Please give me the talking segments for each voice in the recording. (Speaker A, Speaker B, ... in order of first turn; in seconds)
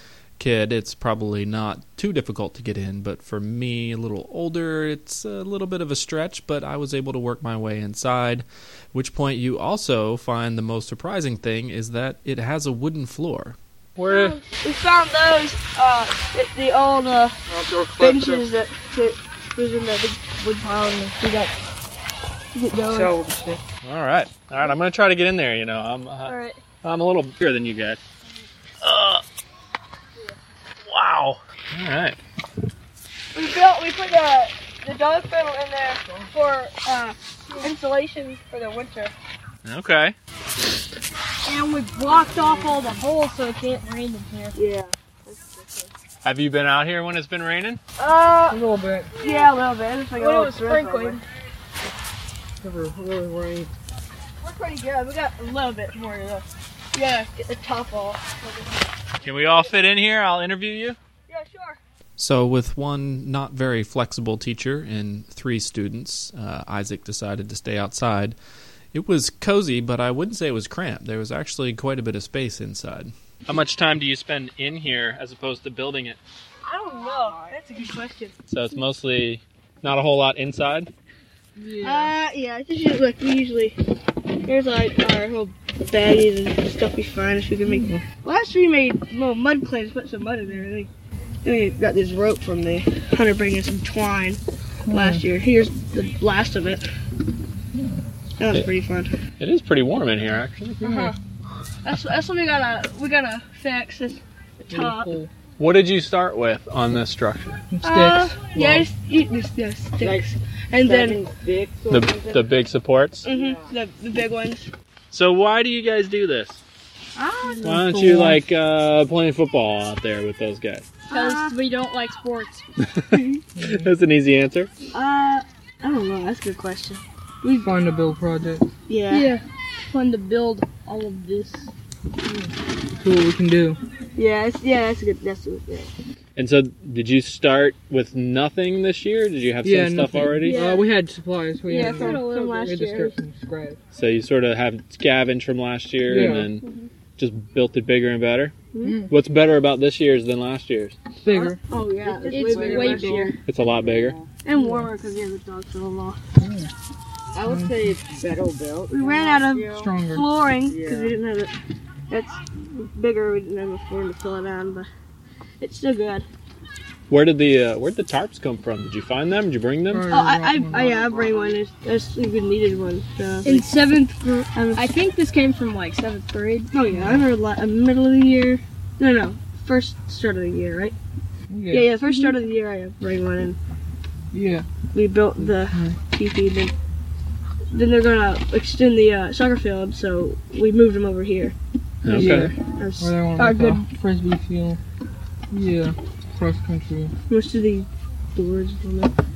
Speaker A: 0.4-13.6, 23.8-28.0, 28.8-29.2, 30.9-32.2, 39.6-40.2, 46.2-47.8, 59.2-61.0, 62.2-68.4, 68.9-76.2, 78.5-80.9, 99.4-101.0, 105.6-107.6, 111.9-113.3, 115.1-116.6, 117.7-120.9, 123.6-124.7, 136.4-140.6, 143.9-146.7, 147.2-148.5, 149.1-151.0, 153.4-154.2, 167.1-170.0, 192.0-192.5
Speaker B: 14.0-14.4, 22.9-23.6, 48.5-49.1, 52.6-53.7, 81.6-82.1, 87.7-88.0, 94.9-95.2, 104.7-105.3, 107.7-108.9, 117.6-118.4, 127.6-128.7, 132.3-133.8, 139.6-143.8, 146.1-146.6, 148.8-149.1, 151.2-151.6, 154.6-154.9, 156.4-156.7, 157.5-157.9, 159.7-160.3, 169.9-171.2, 176.9-177.2, 181.5-181.9, 184.3-184.7, 185.4-186.0, 192.1-194.8, 195.5-197.1
Speaker C: 14.1-17.4, 17.9-21.5, 22.5-23.2, 26.3-26.6, 33.3-39.1, 44.5-45.9, 48.0-48.6, 49.2-51.2, 54.4-58.9, 61.3-61.8, 76.7-78.4, 81.8-83.8, 84.4-90.9, 91.4-96.8, 98.4-99.2, 100.8-101.2, 101.8-105.1, 107.8-111.2, 113.2-114.7, 117.2-117.8, 121.1-121.5, 123.1-123.4, 124.9-127.7, 128.9-129.3, 134.2-135.9, 140.4-140.9, 141.7-143.1, 148.7-149.0, 151.3-153.4, 154.4-156.2, 158.9-161.6, 162.1-164.9, 165.6-166.3, 170.1-174.9, 176.7-180.9, 181.7-183.6, 184.9-186.7, 187.7-191.6, 192.1-193.8, 197.3-199.1
Speaker D: 41.5-44.6, 50.2-51.2, 121.1-122.7, 129.1-131.7, 140.4-140.8, 141.7-142.8, 152.2-153.4, 171.2-171.5, 173.4-176.7, 182.0-182.3
Speaker E: 111.0-111.8, 152.3-153.2, 153.8-154.1, 157.4-159.8, 160.7-161.1